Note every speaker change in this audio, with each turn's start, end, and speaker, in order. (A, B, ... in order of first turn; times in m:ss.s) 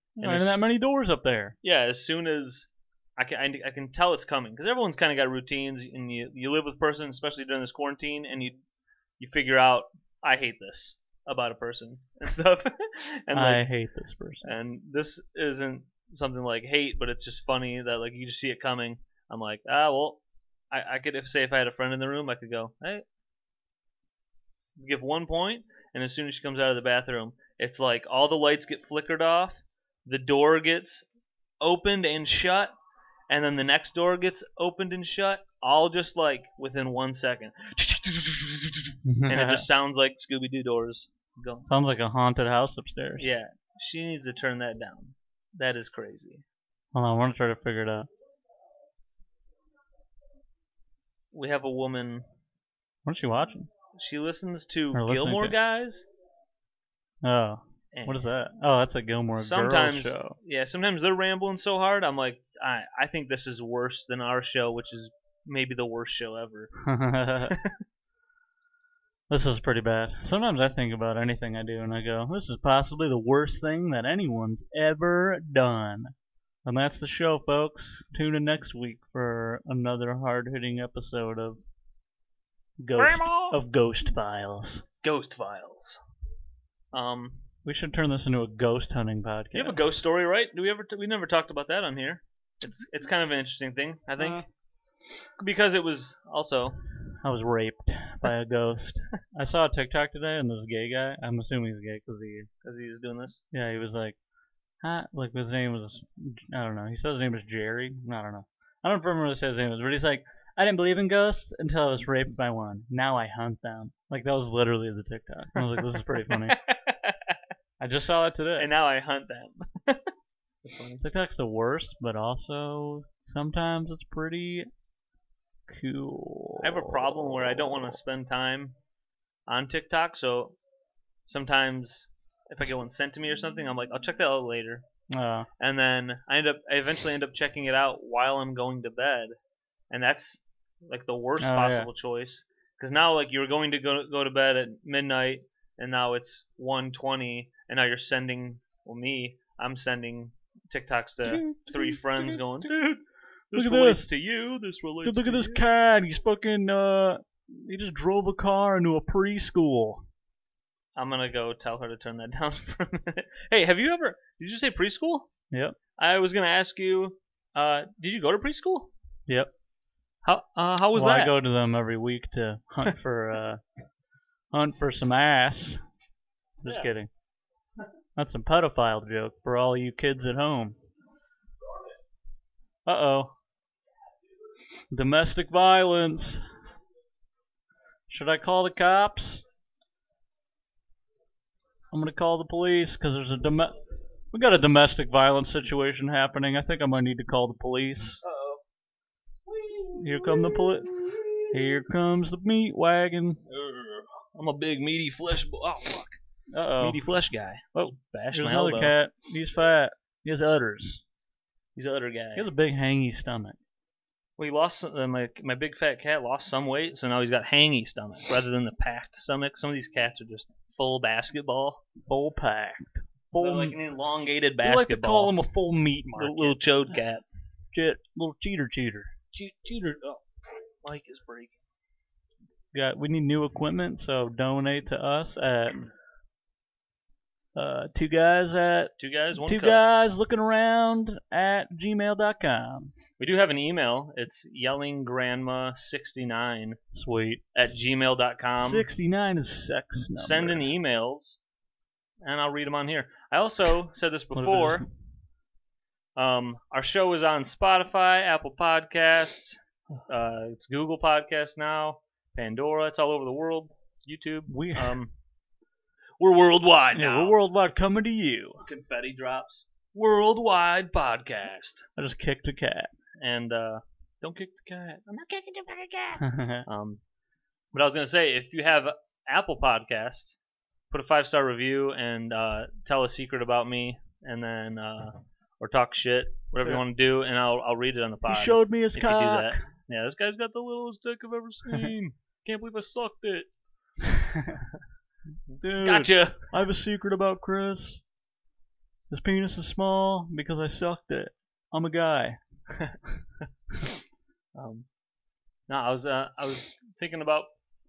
0:00.2-0:01.6 A
0:00.2-0:00.6 B
0:01.6-0:08.6 B
0:09.2-0:13.6 B
0:13.3-0:14.5 A
0:14.4-0:23.0 B
0:24.8-0:31.0 B
0:31.6-0:32.7 B
0:33.3-0:41.7 B
0:39.0-0:39.7 A
0:41.7-0:43.3 A
0:43.2-0:46.4 B
0:46.9-0:48.1 A
0:51.3-0:52.2 B
0:53.0-0:53.7 A
0:53.9-0:56.1 B
0:54.9-0:55.6 A
0:57.2-1:00.4 A
0:57.9-0:58.3 B
0:59.4-1:06.7 B
1:06.8-1:07.6 A
1:07.4-1:07.8 B
1:09.3-1:16.1 A
1:16.6-1:21.6 A
1:22.8-1:24.8 A
1:23.0-1:23.6 B
1:25.0-1:26.0 B
1:26.9-1:27.4 B
1:27.6-1:30.0 A
1:29.5-1:34.5 B
1:35.4-1:36.8 B
1:37.2-1:42.5 A
1:42.6-1:43.4 B
1:43.5-1:44.2 A
1:44.8-1:56.6 A
1:55.8-1:57.4 B
1:57.8-1:58.7 A
1:58.6-2:00.1 B
2:00.6-2:01.0 B
2:01.0-2:04.7 A
2:05.7-2:08.0 A
2:06.6-2:08.7 B
2:09.5-2:10.6 B
2:11.3-2:14.8 B
2:15.1-2:15.5 A
2:15.6-2:19.3 B
2:19.9-2:35.6 B
2:21.4-2:21.9 A
2:31.2-2:32.8 A
2:33.5-2:34.1 A
2:35.0-2:40.0 A
2:41.0-2:45.3 B
2:45.5-2:45.8 A
2:46.0-2:48.9 B
2:50.2-2:51.4 B
2:50.9-2:53.6 A
2:54.5-2:55.8 A
2:56.6-2:57.1 A
2:56.7-2:56.9 B
2:58.2-3:00.8 A
3:02.9-3:03.3 A
3:04.9-3:06.4 A
3:08.1-3:09.4 A
3:11.9-3:13.8 A
3:14.3-3:18.2 A
3:18.2-3:18.6 B
3:19.5-3:20.6 B
3:19.9-3:23.4 A
3:23.5-3:26.2 B
3:26.5-3:27.0 A
3:26.8-3:29.0 B
3:27.7-3:31.0 A
3:31.8-3:32.5 B
3:32.4-3:33.6 A
3:34.4-3:41.8 B
3:42.1-3:43.8 A
3:43.4-3:45.3 B
3:44.6-3:46.6 A
3:46.1-3:47.2 B
3:47.7-3:49.1 A
3:49.3-3:50.2 B
3:50.8-3:51.6 B
3:52.7-3:55.9 A
3:57.6-4:02.9 A
3:59.0-3:59.8 B
4:03.2-4:06.8 B
4:06.9-4:07.5 A
4:07.6-4:08.9 B
4:08.6-4:10.7 A
4:10.0-4:11.4 B
4:12.2-4:14.9 B
4:14.4-4:14.9 A
4:16.2-4:25.1 B
4:24.5-4:25.0 A
4:26.2-4:27.4 B
4:26.9-4:28.6 A
4:28.6-4:31.9 B
4:32.0-4:32.9 A
4:33.2-4:37.0 B
4:36.2-4:36.7 A
4:37.7-4:40.4 B
4:40.9-4:53.5 B
4:48.2-4:49.6 A
4:51.7-4:51.9 A
4:54.0-4:54.6 A
4:55.5-4:56.6 B
4:55.6-4:58.0 A
4:59.1-5:02.4 A
5:02.7-5:03.0 B
5:04.6-5:04.9 B
5:05.7-5:07.5 B